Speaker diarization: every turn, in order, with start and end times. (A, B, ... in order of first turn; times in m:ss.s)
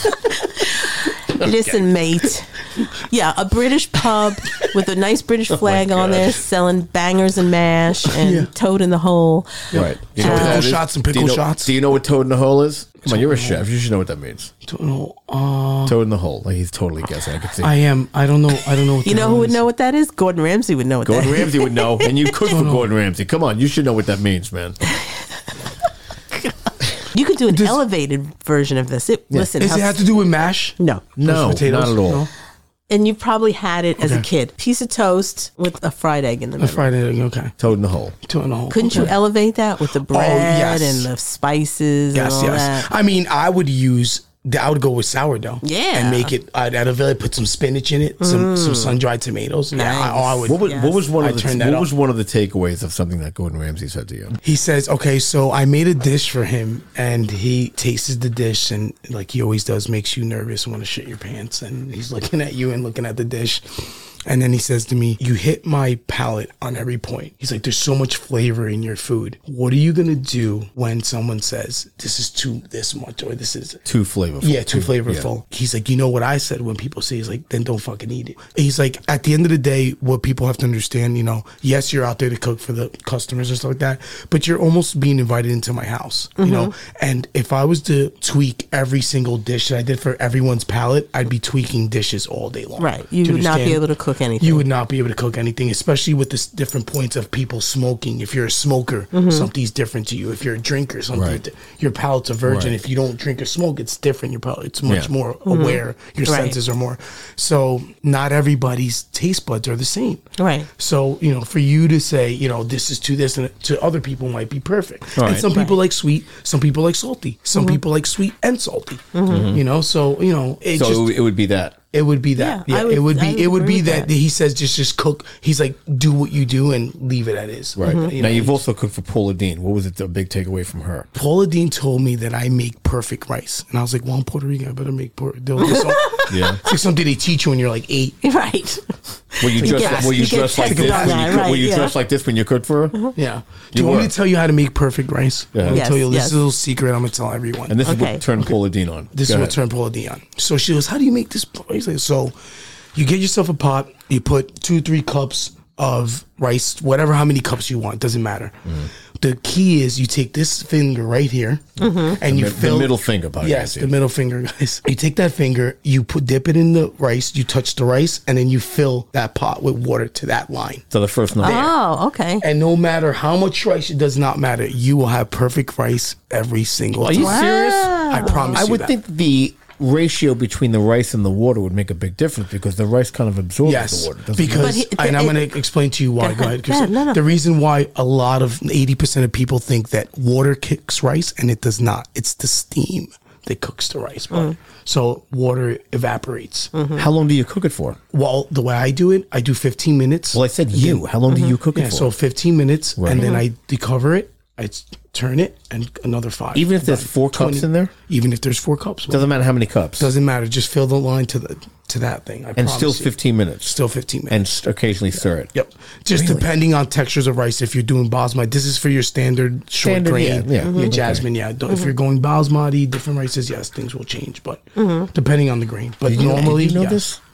0:00.2-0:10.7 A
0:05.5-0:06.4 B
0:08.1-0:08.5 C
0:09.7-0:11.7 C
0:09.7-0:14.5 B
0:13.0-0:13.6 C
0:14.6-0:16.0 C
0:15.8-0:17.8 B
0:17.6-0:19.6 C
0:19.0-0:22.5 A
0:21.0-0:24.8 B
0:22.5-0:22.9 C
0:27.1-0:30.0 A
0:27.5-0:27.8 C
0:29.6-0:32.3 C
0:30.8-0:31.0 A
0:31.2-0:32.3 B
0:32.9-0:36.9 A
0:34.0-0:34.3 C
0:36.6-0:37.6 C
0:37.6-0:38.2 B
0:38.3-0:39.2 C
0:38.7-0:42.9 A
0:40.1-0:41.1 C
0:42.1-0:51.9 C
0:45.6-0:46.3 A
0:48.2-0:49.0 A
0:49.7-0:51.0 A
0:50.5-0:54.4 B
0:54.4-1:13.8 C
1:13.8-1:15.3 B
1:14.4-1:33.8 C
1:26.4-1:26.7 A
1:32.8-1:34.6 A
1:34.4-2:01.2 C
1:39.1-1:39.5 A
1:41.1-1:41.4 B
1:42.4-1:42.8 B
1:44.8-1:45.1 B
1:45.5-1:46.6 A
1:50.4-1:50.7 A
1:55.2-1:55.5 B
1:55.5-1:55.8 A
1:59.1-1:59.5 A
1:59.3-1:59.6 B
2:00.7-2:01.8 B
2:01.9-2:08.6 C
2:02.4-2:04.1 A
2:07.8-2:11.1 B
2:07.8-2:08.1 A
2:11.1-2:18.2 C
2:15.6-2:16.7 A
2:16.3-2:16.6 B
2:18.2-2:22.0 A
2:19.4-2:23.0 B
2:19.6-2:21.6 C
2:23.2-2:27.8 C
2:23.7-2:24.1 B
2:25.5-2:25.8 B
2:25.7-2:26.4 A
2:27.7-2:29.6 B
2:27.9-2:28.2 A
2:29.1-2:32.4 C
2:32.9-2:50.8 C
2:41.8-2:42.2 A
2:42.2-2:43.9 B
2:50.9-2:51.7 B
2:51.4-2:51.8 C
2:51.4-2:52.4 A
2:52.4-2:58.9 C
2:57.0-3:04.8 B
2:57.2-2:58.6 A
3:03.6-3:16.8 C
3:04.5-3:05.5 A
3:06.2-3:07.2 A
3:16.7-3:17.1 A
3:17.0-3:18.0 B
3:18.1-3:21.0 C
3:20.3-3:22.1 B
3:21.3-3:21.6 A
3:21.7-3:29.3 C
3:23.0-3:23.3 B
3:23.2-3:23.4 A
3:26.5-3:27.9 B
3:29.1-3:30.1 B
3:30.0-3:33.1 C
3:32.6-3:35.5 B
3:33.6-3:34.5 C
3:35.5-3:47.0 C
3:36.1-3:36.5 B
3:39.8-3:41.3 B
3:40.6-3:41.0 A
3:44.8-3:45.1 A
3:46.0-3:47.2 B